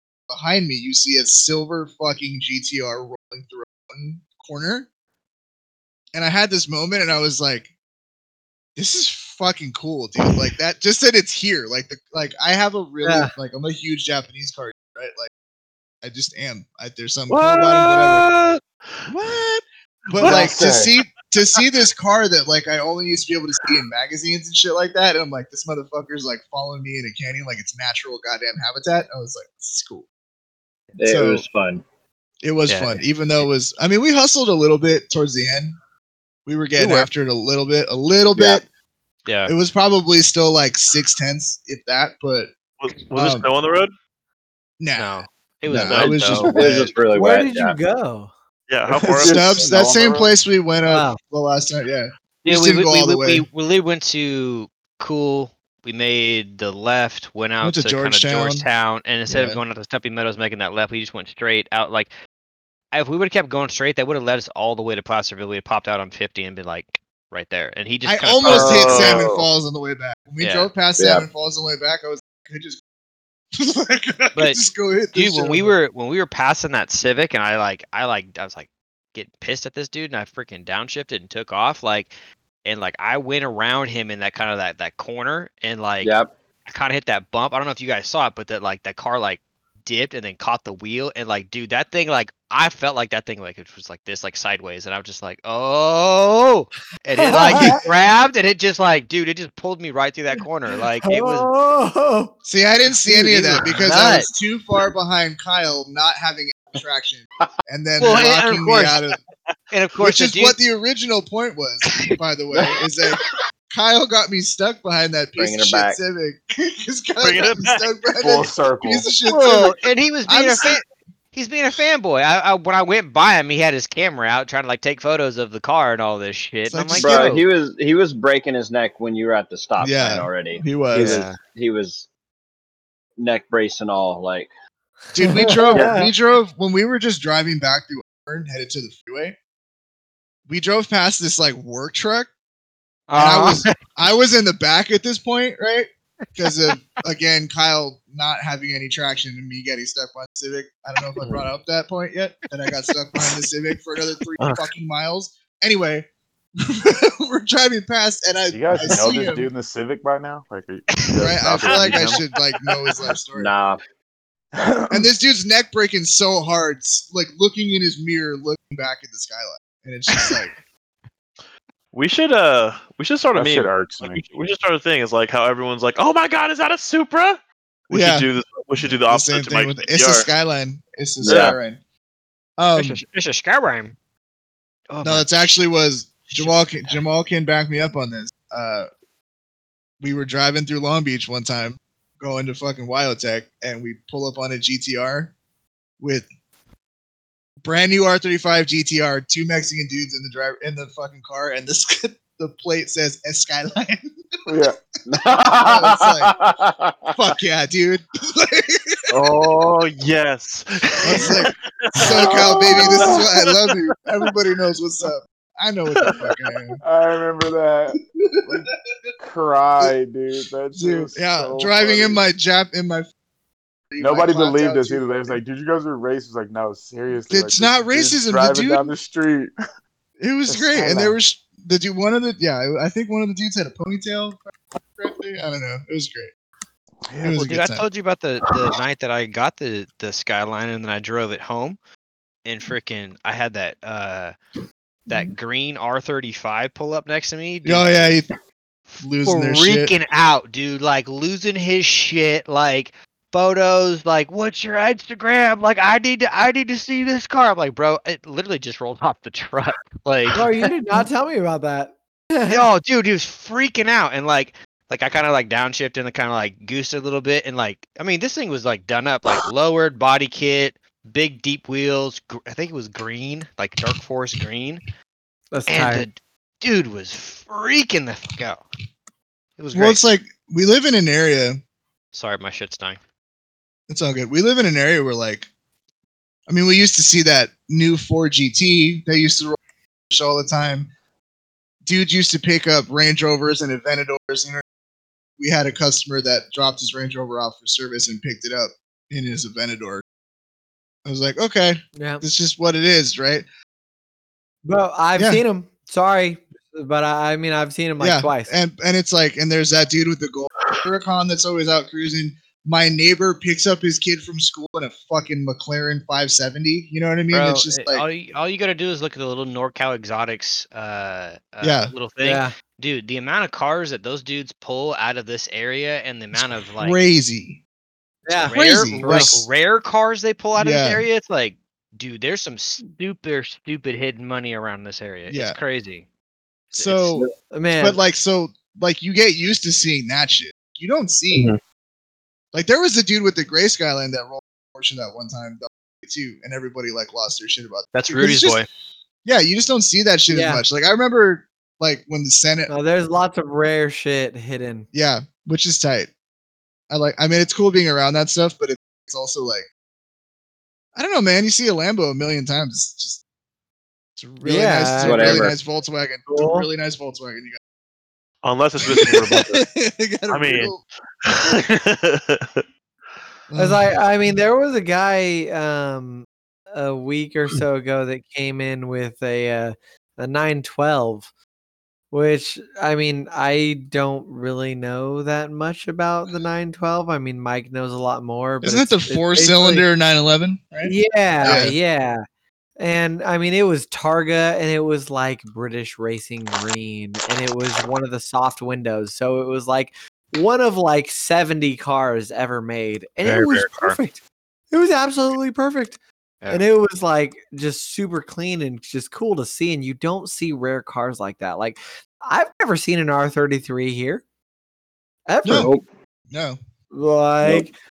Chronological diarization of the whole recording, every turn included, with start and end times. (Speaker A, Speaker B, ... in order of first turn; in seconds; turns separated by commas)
Speaker A: 0.3-4.9, Speaker A: 6.1-7.7, Speaker A: 8.8-15.3, Speaker B: 13.0-13.3, Speaker A: 16.0-18.3, Speaker C: 17.3-19.0, Speaker A: 19.1-30.1, Speaker C: 20.2-20.6, Speaker D: 20.2-20.9, Speaker E: 31.0-31.8, Speaker A: 31.1-31.4, Speaker A: 32.4-35.8, Speaker F: 32.7-33.0, Speaker A: 36.5-38.6, Speaker E: 38.3-38.6, Speaker F: 39.3-39.5, Speaker A: 39.5-42.5, Speaker C: 42.8-43.9, Speaker A: 43.1-43.5, Speaker A: 44.8-46.8, Speaker F: 45.0-46.5, Speaker C: 45.7-46.9, Speaker E: 46.5-47.8, Speaker B: 47.1-48.3, Speaker C: 48.7-49.7, Speaker A: 49.0-53.5, Speaker D: 49.1-50.4, Speaker B: 50.9-51.2, Speaker F: 52.4-62.1, Speaker A: 57.6-58.6, Speaker A: 59.3-59.6, Speaker F: 62.9-69.2, Speaker A: 68.0-72.8, Speaker C: 68.5-69.3, Speaker E: 68.5-69.5, Speaker F: 70.4-70.7, Speaker E: 71.0-71.3, Speaker A: 73.5-75.7, Speaker F: 74.4-74.6, Speaker F: 75.1-82.1, Speaker F: 82.6-86.1, Speaker E: 86.0-86.3, Speaker F: 86.7-101.5, Speaker B: 97.2-97.8, Speaker A: 97.4-97.7, Speaker B: 101.0-102.3, Speaker A: 102.5-109.2, Speaker F: 103.0-104.3, Speaker F: 108.0-109.0, Speaker F: 109.7-110.6, Speaker A: 110.0-120.8, Speaker E: 115.4-116.0, Speaker C: 117.2-117.9, Speaker D: 118.2-119.1, Speaker F: 119.3-127.4, Speaker A: 126.7-127.4, Speaker E: 127.0-132.1, Speaker A: 129.8-131.2, Speaker F: 130.9-131.4, Speaker E: 133.2-134.5, Speaker A: 135.1-139.4, Speaker B: 135.2-136.1, Speaker E: 135.7-136.0, Speaker A: 140.5-142.3, Speaker F: 143.1-143.8, Speaker A: 143.2-159.5, Speaker F: 151.2-151.4, Speaker D: 158.5-162.2, Speaker F: 161.0-162.1, Speaker A: 161.2-163.6, Speaker E: 163.3-163.8, Speaker D: 164.5-165.1, Speaker A: 164.9-170.5, Speaker C: 171.9-177.4, Speaker D: 173.3-174.2, Speaker A: 177.9-178.3, Speaker C: 177.9-180.3, Speaker A: 179.1-181.8, Speaker E: 181.2-181.6, Speaker C: 181.3-181.6, Speaker A: 182.6-183.0, Speaker F: 182.8-184.0, Speaker F: 184.9-185.6, Speaker A: 185.0-188.9, Speaker F: 186.3-187.0, Speaker A: 190.0-195.3, Speaker A: 196.0-196.3, Speaker A: 197.6-204.1, Speaker D: 204.5-204.8, Speaker E: 205.1-207.2, Speaker A: 205.6-206.4, Speaker A: 207.2-209.3, Speaker C: 209.1-213.8, Speaker A: 211.0-216.8, Speaker D: 216.8-222.2, Speaker A: 217.9-218.6, Speaker A: 220.7-223.1, Speaker A: 223.9-225.4, Speaker D: 224.0-229.5, Speaker A: 227.3-228.9, Speaker A: 230.2-236.3, Speaker D: 230.5-231.2, Speaker D: 237.1-237.4, Speaker A: 237.2-237.8, Speaker F: 237.4-241.8, Speaker F: 242.4-244.3, Speaker A: 245.1-245.3, Speaker F: 245.1-248.1, Speaker A: 247.6-248.3, Speaker F: 248.9-260.4, Speaker A: 249.0-249.9, Speaker B: 260.3-262.6, Speaker F: 262.4-274.9, Speaker B: 275.5-276.1, Speaker F: 275.7-278.6, Speaker F: 279.6-280.1, Speaker A: 279.7-281.6, Speaker F: 282.1-283.0, Speaker A: 283.9-285.5, Speaker A: 286.5-289.6, Speaker A: 290.1-290.9, Speaker A: 291.8-294.6, Speaker A: 295.4-300.0, Speaker A: 301.1-303.4, Speaker B: 301.9-302.2, Speaker B: 304.6-308.5, Speaker A: 305.1-305.4, Speaker A: 308.0-318.1, Speaker F: 317.3-327.0, Speaker A: 321.6-321.9, Speaker B: 322.2-322.5, Speaker A: 326.3-327.6, Speaker B: 328.3-329.3, Speaker A: 328.4-329.4, Speaker F: 328.4-336.1, Speaker A: 330.6-331.0, Speaker A: 335.3-335.6, Speaker F: 336.7-337.2, Speaker A: 336.7-337.3, Speaker B: 337.5-338.0, Speaker A: 337.8-341.6, Speaker A: 342.5-348.6, Speaker F: 347.9-348.7, Speaker A: 349.2-352.7, Speaker B: 350.3-350.6, Speaker B: 352.7-354.9, Speaker A: 354.9-356.1, Speaker A: 356.9-359.7, Speaker A: 360.9-363.2, Speaker A: 364.2-367.6, Speaker B: 364.4-365.5, Speaker E: 365.0-365.6, Speaker B: 366.3-366.7, Speaker C: 368.4-369.6, Speaker A: 368.8-370.8, Speaker C: 370.3-372.6, Speaker A: 373.5-373.8, Speaker B: 373.6-381.3, Speaker B: 382.1-389.9, Speaker A: 388.6-391.8, Speaker B: 390.8-392.2, Speaker B: 392.8-404.2, Speaker F: 403.2-404.0, Speaker B: 404.7-406.0, Speaker B: 406.5-414.2, Speaker B: 415.3-415.8, Speaker A: 415.4-415.7, Speaker E: 415.5-415.8, Speaker A: 416.3-416.6, Speaker B: 416.9-417.7